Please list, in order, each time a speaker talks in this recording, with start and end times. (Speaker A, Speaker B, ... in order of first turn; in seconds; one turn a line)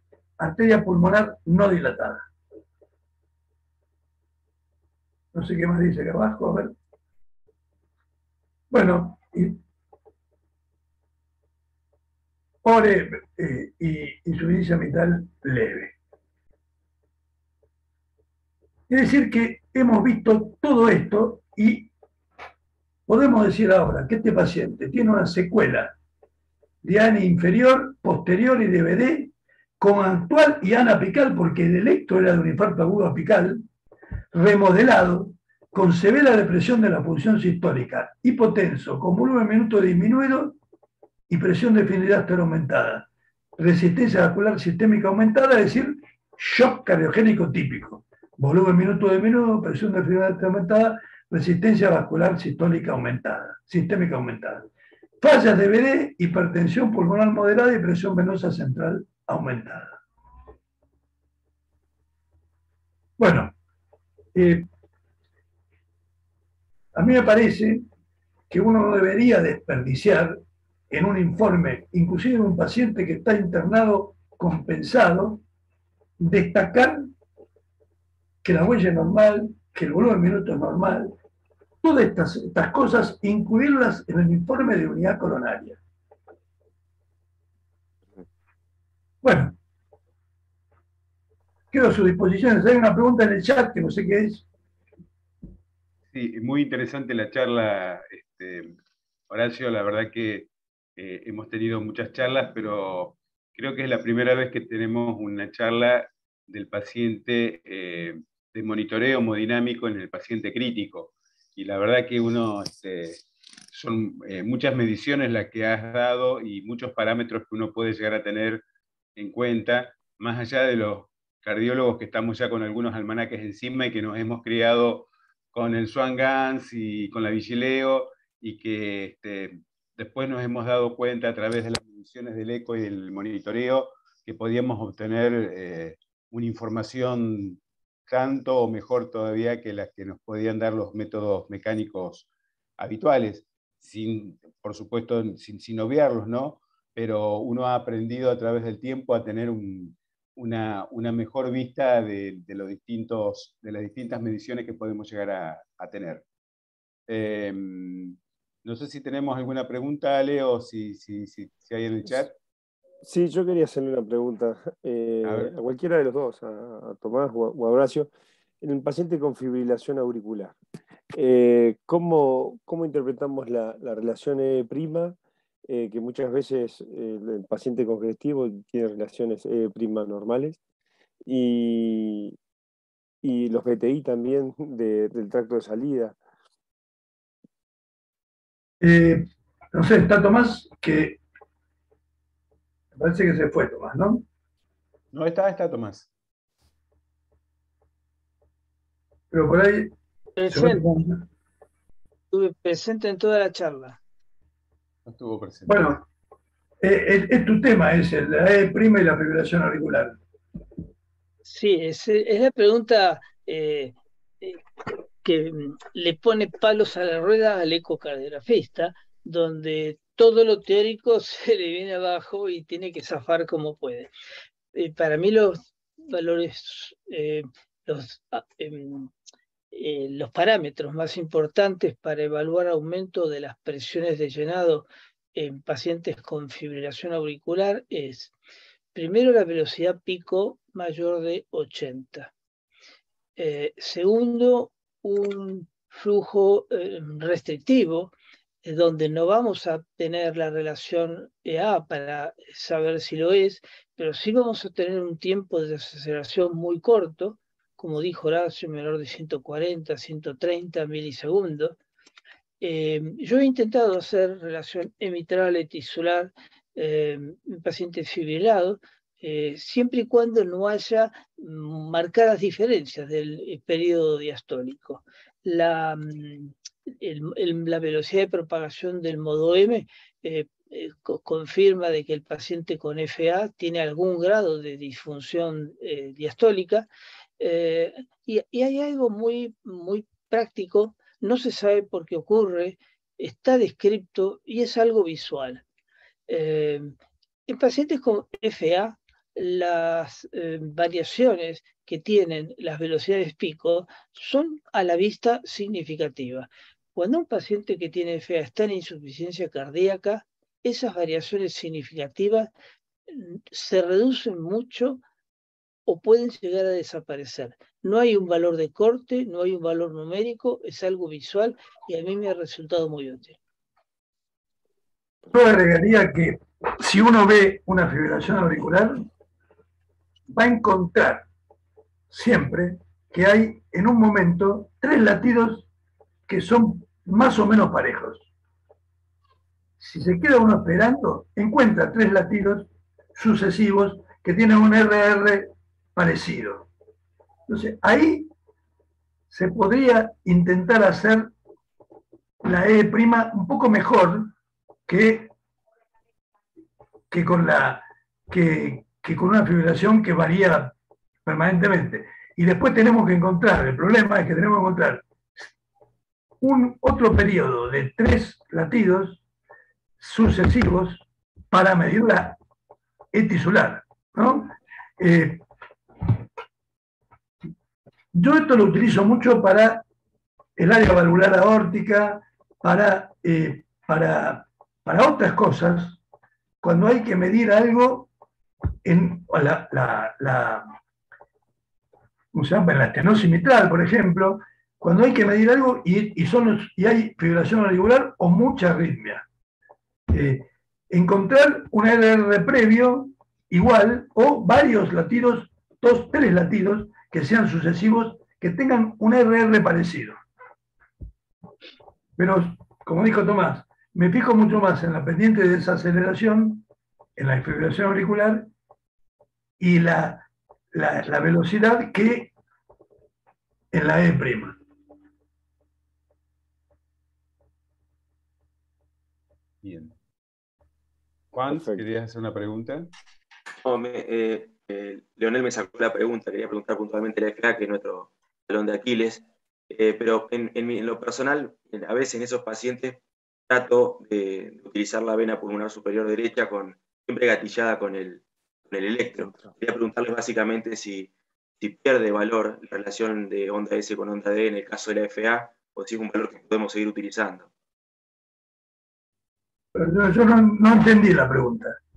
Speaker A: 0.4-2.2
Speaker A: 5.3-6.7
Speaker A: 8.7-9.6
Speaker A: 12.6-15.9
Speaker A: 18.9-21.9
Speaker A: 23.1-25.9
Speaker A: 26.8-33.6
Speaker A: 34.3-40.6
Speaker A: 41.3-54.7
Speaker A: 55.2-60.0
Speaker A: 63.2-63.5
Speaker A: 64.3-64.7
Speaker A: 66.9-67.8
Speaker A: 68.5-70.4
Speaker A: 70.9-75.4
Speaker A: 76.2-77.1
Speaker A: 78.4-81.1
Speaker A: 81.8-85.8
Speaker A: 89.2-89.5
Speaker A: 91.7-94.5
Speaker B: 96.1-98.8
Speaker B: 99.3-118.6
Speaker B: 119.2-156.2
Speaker B: 157.1-162.3
Speaker C: 163.0-168.1
Speaker B: 165.2-165.5
Speaker C: 168.6-170.6
Speaker C: 171.1-175.2
Speaker C: 175.7-180.6
Speaker C: 181.3-182.3
Speaker C: 183.2-186.2
Speaker A: 188.8-191.2
Speaker A: 193.0-194.2
Speaker B: 195.1-196.1
Speaker A: 199.3-199.9
Speaker D: 200.4-200.8
Speaker A: 200.5-201.2
Speaker D: 202.3-204.0
Speaker B: 205.0-205.9
Speaker A: 205.7-206.0
Speaker A: 206.8-210.2
Speaker D: 211.4-214.6
Speaker D: 215.2-224.1
Speaker D: 224.7-229.1
Speaker D: 229.7-238.3
Speaker D: 238.9-242.3
Speaker D: 243.4-261.8
Speaker D: 262.6-286.9
Speaker D: 287.4-295.6
Speaker D: 296.3-296.9
Speaker D: 297.5-312.5
Speaker D: 313.1-315.0
Speaker D: 315.9-323.4
Speaker A: 325.3-329.1
Speaker A: 330.3-331.2
Speaker A: 332.1-335.7
Speaker A: 336.3-338.3
Speaker A: 339.8-346.7
Speaker A: 347.5-348.3
Speaker A: 349.3-351.3
Speaker A: 352.4-354.3
Speaker A: 354.9-355.3
Speaker A: 357.1-360.7
Speaker A: 361.2-365.4
Speaker A: 366.4-369.2
Speaker A: 370.0-372.4
Speaker A: 373.1-375.4
Speaker A: 378.1-379.8
Speaker A: 380.6-386.0
Speaker A: 386.6-388.1
Speaker A: 388.8-390.6
Speaker A: 392.3-399.2
Speaker A: 400.1-410.1
Speaker A: 412.2-416.6
Speaker A: 417.1-418.5
Speaker A: 419.6-422.3
Speaker A: 423.7-424.6
Speaker B: 429.6-429.9
Speaker B: 431.3-432.9
Speaker C: 431.5-431.8
Speaker E: 433.6-457.5
Speaker A: 459.7-461.8